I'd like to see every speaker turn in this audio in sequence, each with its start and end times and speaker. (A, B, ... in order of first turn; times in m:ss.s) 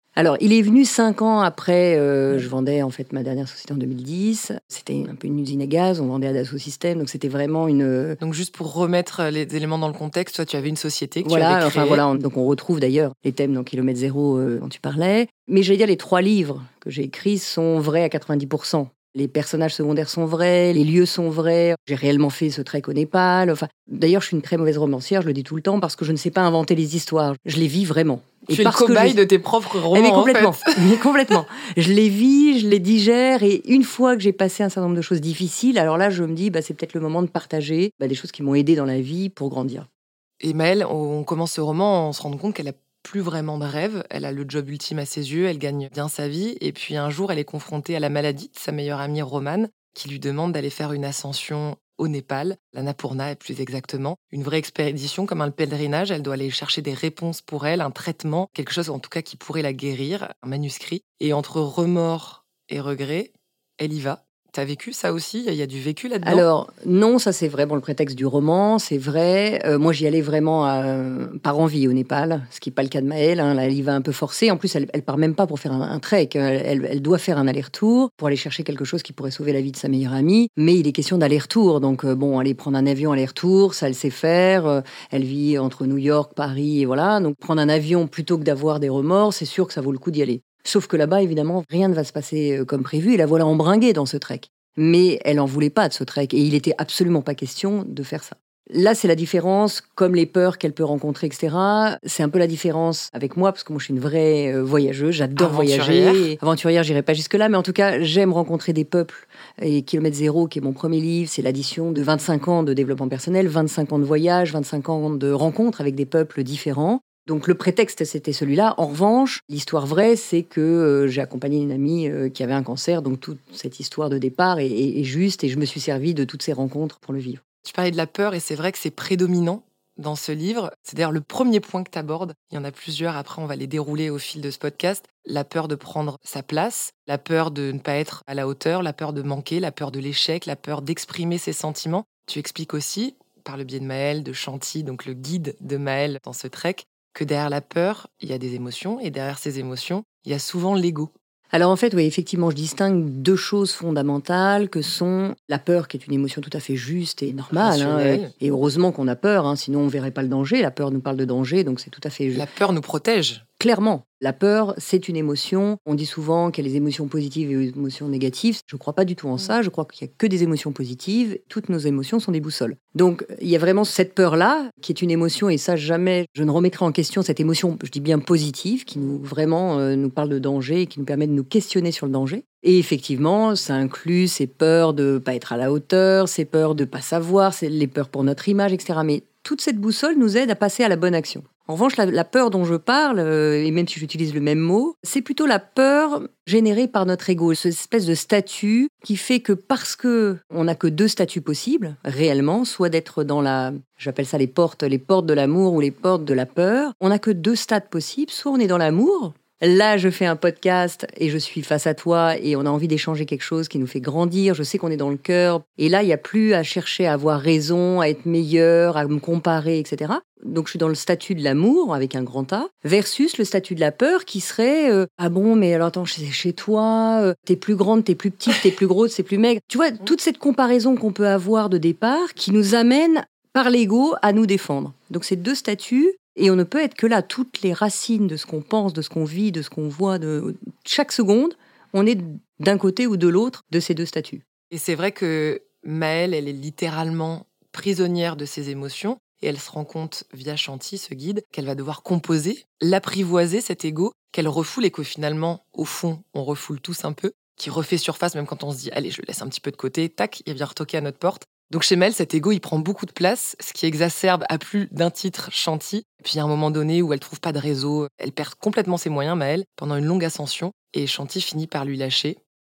0:00.2-0:08.2 A
0:08.2-0:12.0 B
0:11.2-0:29.2 A
0:28.5-0:31.0 B
0:29.9-0:39.9 A
0:40.4-1:06.4 B
1:06.2-2:07.4 A
1:45.4-1:46.3 B
2:07.6-2:31.1 B
2:31.5-2:42.4 A
2:37.5-2:38.3 B
2:42.3-2:43.4 B
2:43.6-4:04.4 A
4:04.7-4:32.4 B